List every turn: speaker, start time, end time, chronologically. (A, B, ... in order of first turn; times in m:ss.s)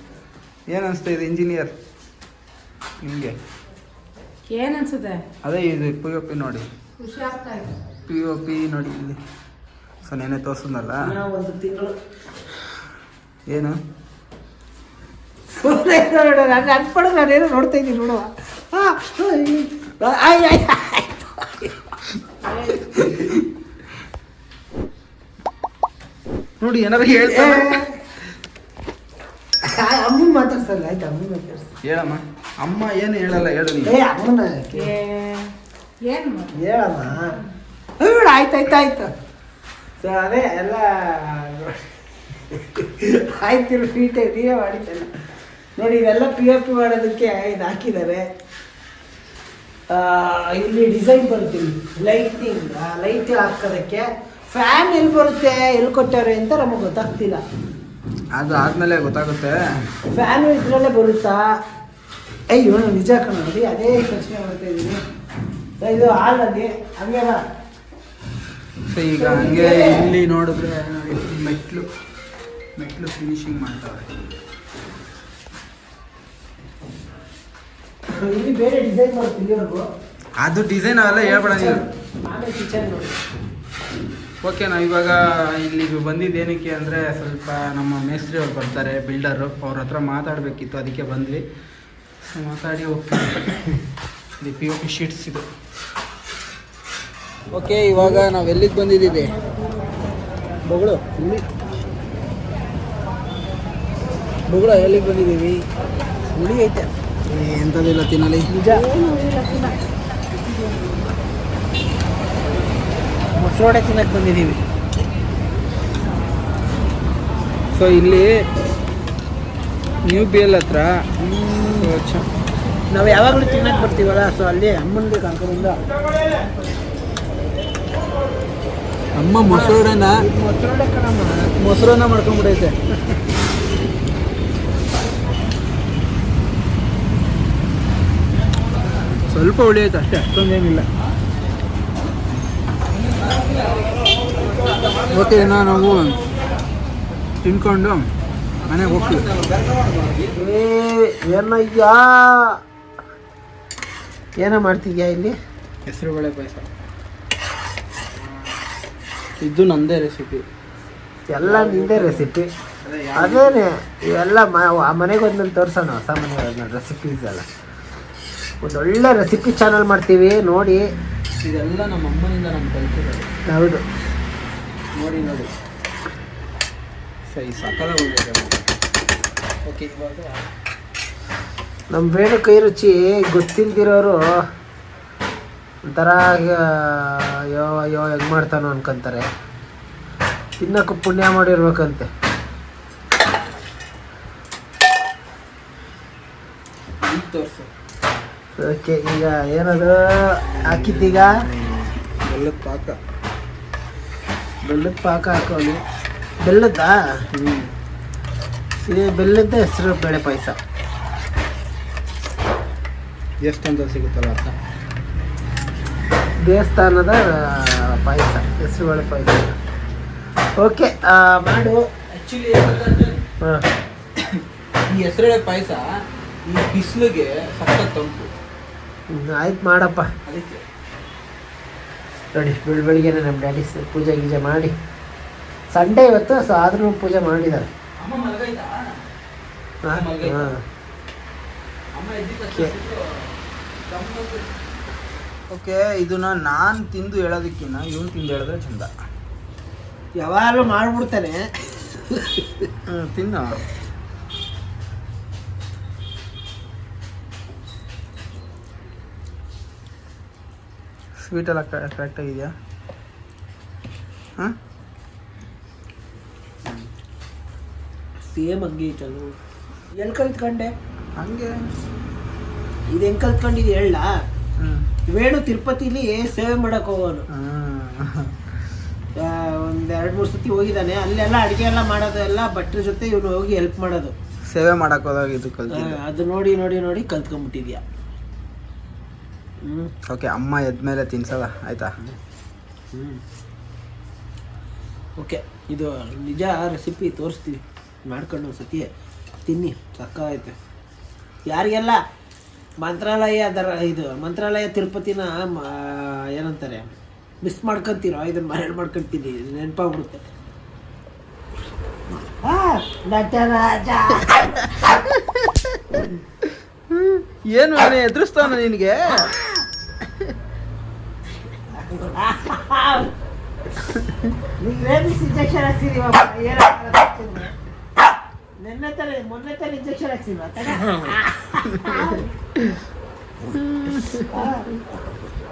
0:00.7-0:01.7 A
0:03.0-0:03.3 A
0:04.5-0:05.2 B
0:05.4-0:06.7 A
0:07.0-0:07.7 B
0:08.1-0:09.2 A
0:10.0-0:11.0 A
0:11.0-0:11.9 C
0:13.5-0:13.8 A
0:15.6-0:21.8 C
0:23.0-0:23.4 A
0:26.6-0:27.9 A
0:27.0-0:28.0 C
0:29.6-0:31.7 C
0:31.8-0:34.0 A
0:33.8-0:34.9 C
0:34.8-0:35.5 B
0:36.0-0:37.4 B
0:36.6-0:37.3 C
0:38.0-0:39.1 C
0:40.0-0:41.9 C
0:42.5-0:45.1 C
0:45.8-0:48.2 C
0:49.9-0:57.4 C
0:58.4-0:59.6 A
1:00.1-1:01.4 C
1:02.5-1:05.0 C
1:05.8-1:07.4 C
1:08.9-1:11.8 A
1:09.2-1:10.0 C
1:12.8-1:14.1 A
1:18.2-1:19.8 C
1:20.4-1:21.8 A
1:21.0-1:23.2 C
1:24.4-1:31.4 A
1:32.2-1:33.8 A
1:34.4-1:35.4 A
1:37.5-1:39.3 A
1:38.0-1:38.3 C
1:40.7-1:41.4 C
1:44.5-1:45.6 A
1:46.3-1:46.9 C
1:47.3-1:48.5 A
1:48.5-1:48.8 C
1:48.7-1:49.9 B
1:50.4-1:50.9 B
1:53.3-1:54.6 C
1:57.7-1:58.4 A
2:00.0-2:02.2 A
2:01.5-2:01.9 C
2:02.9-2:05.8 C
2:09.2-2:10.2 A
2:09.4-2:11.5 C
2:11.6-2:12.8 A
2:19.3-2:20.9 A
2:24.8-2:26.2 A
2:27.4-2:28.0 A
2:28.6-2:30.4 A
2:28.7-2:29.2 C
2:30.3-2:32.5 C
2:34.4-2:35.3 C
2:35.8-2:36.7 A
2:39.4-2:40.4 A
2:41.3-2:42.5 C
2:41.4-2:42.3 A
2:42.8-2:43.6 A
2:43.2-2:47.4 C
2:48.6-2:50.8 C
2:51.4-2:53.3 A
2:53.5-2:53.8 C
2:54.9-2:55.5 A
2:57.3-2:58.7 A
2:59.6-3:00.4 A
3:01.9-3:04.2 C
3:05.9-3:09.3 C
3:10.6-3:12.1 C
3:17.0-3:17.7 A
3:18.6-3:21.4 C
3:20.6-3:23.0 A
3:24.6-3:25.8 C
3:26.4-3:27.0 C
3:27.3-3:27.7 A
3:28.8-3:30.6 C
3:33.4-3:34.5 A
3:36.4-3:39.5 C
3:40.6-3:41.8 C
3:42.1-3:43.2 A
3:44.2-3:45.8 A
3:46.4-3:48.3 A
3:49.1-3:50.1 C
3:50.2-3:50.6 A
3:52.3-3:54.7 C
3:55.7-3:57.7 C
3:58.0-3:59.0 A
3:59.8-4:00.6 C
3:59.9-4:00.5 A
4:02.0-4:03.3 A
4:03.9-4:04.5 A
4:05.5-4:08.9 A
4:10.2-4:12.7 C
4:12.9-4:13.6 A
4:21.2-4:22.5 A
4:28.3-4:29.3 C
4:30.0-4:30.7 C
4:31.2-4:31.6 A
4:32.9-4:34.1 C
4:34.6-4:34.9 A
4:35.1-4:37.3 C
4:37.3-4:38.3 A
4:39.2-4:44.2 C
4:44.5-4:46.0 A
4:45.7-4:47.8 C
4:49.6-4:49.9 C
4:50.1-4:51.9 A
4:52.9-4:53.2 C
4:55.2-4:58.9 C
4:59.4-5:00.6 C
5:01.5-5:02.0 C
5:02.8-5:06.9 C
5:07.4-5:10.2 C
5:12.2-5:15.0 C
5:16.9-5:19.3 A
5:21.7-5:23.1 C
5:24.6-5:27.5 C
5:28.6-5:32.3 C
5:31.6-5:32.2 A
5:33.6-5:34.3 A
5:33.9-5:34.9 C